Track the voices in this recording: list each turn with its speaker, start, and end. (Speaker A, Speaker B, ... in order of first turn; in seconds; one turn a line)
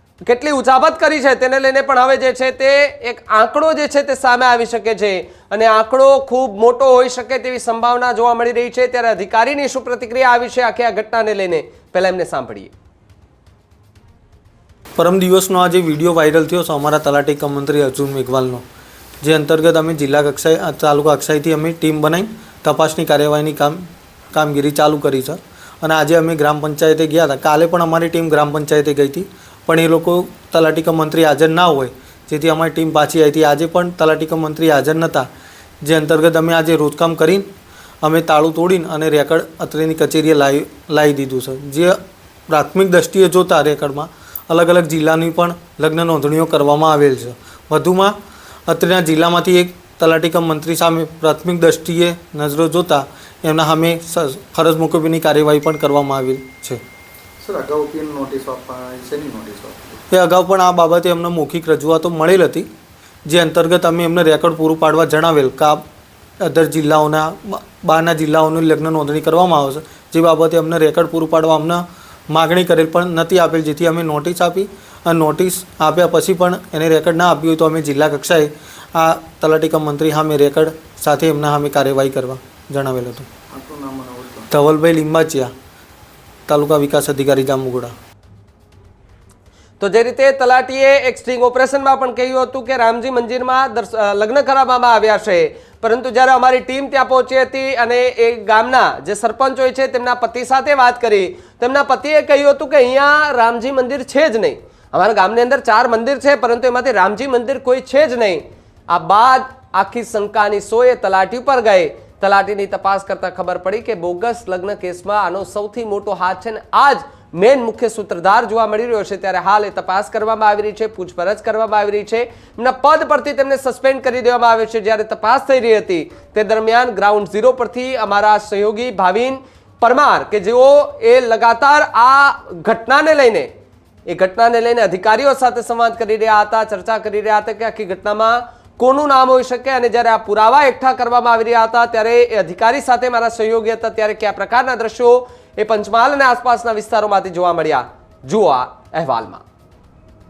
Speaker A: 0.2-12.7
Speaker B: 15.0-18.6
Speaker B: 19.2-35.3
Speaker B: 35.8-37.5
Speaker B: 38.0-42.0
Speaker B: 42.5-48.1
Speaker B: 48.7-56.8
Speaker C: 57.4-60.0
Speaker B: 60.1-62.7
Speaker B: 63.3-65.8
Speaker B: 66.4-83.3
Speaker C: 83.5-84.5
Speaker B: 84.5-85.5
Speaker B: 86.5-87.9
Speaker A: 89.8-133.5
Speaker A: 134.1-149.4